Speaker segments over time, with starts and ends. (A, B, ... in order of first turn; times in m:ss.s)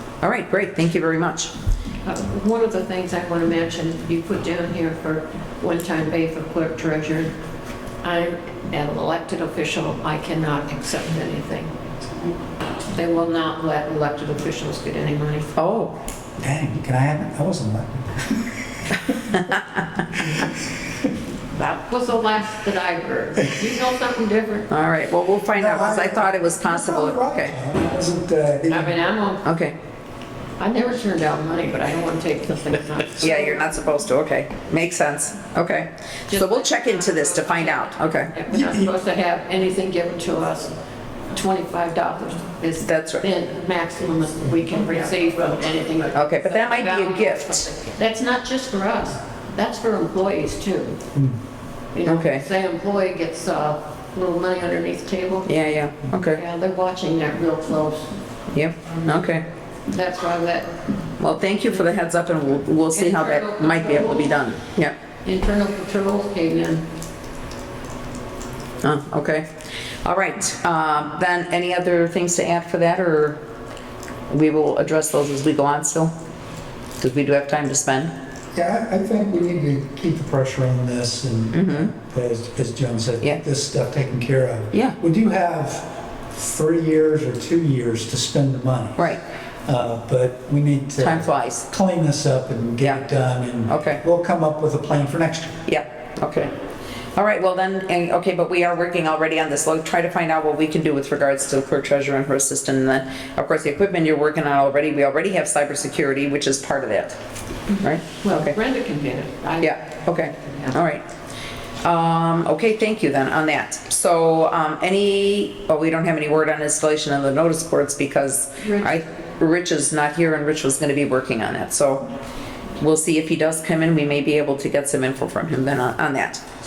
0:00.2-0:01.5 A
0:02.0-0:07.3 B
0:08.0-0:11.7 B
0:12.9-0:15.5 B
0:15.6-0:16.0 A
0:16.4-0:19.5 C
0:20.1-0:20.5 C
0:21.5-0:24.7 B
0:24.7-0:27.5 A
0:25.5-0:29.0 C
0:28.7-0:29.4 B
0:29.4-0:29.7 A
0:30.6-0:33.6 B
0:33.2-0:38.3 A
0:36.3-0:40.7 B
0:41.3-0:51.0 B
0:42.8-0:43.2 A
0:46.1-0:47.7 A
0:51.9-0:55.5 B
0:52.0-0:52.4 A
0:55.4-0:56.4 A
0:56.3-0:58.1 B
0:58.5-0:59.4 A
0:59.9-1:00.7 B
1:01.2-1:04.9 A
1:02.9-1:04.4 B
1:05.2-1:06.8 B
1:08.8-1:09.5 A
1:10.0-1:13.4 A
1:14.3-1:16.1 A
1:17.0-1:18.1 A
1:18.5-1:35.6 C
1:21.5-1:21.9 A
1:31.0-1:31.7 A
1:33.7-1:34.0 A
1:35.7-1:36.5 A
1:37.2-1:47.2 A
1:47.7-1:49.8 B
1:47.8-1:48.5 A
1:49.6-1:51.0 A
1:50.4-1:50.8 B
1:51.8-2:02.0 A
1:58.6-1:59.0 B
2:02.8-2:06.4 A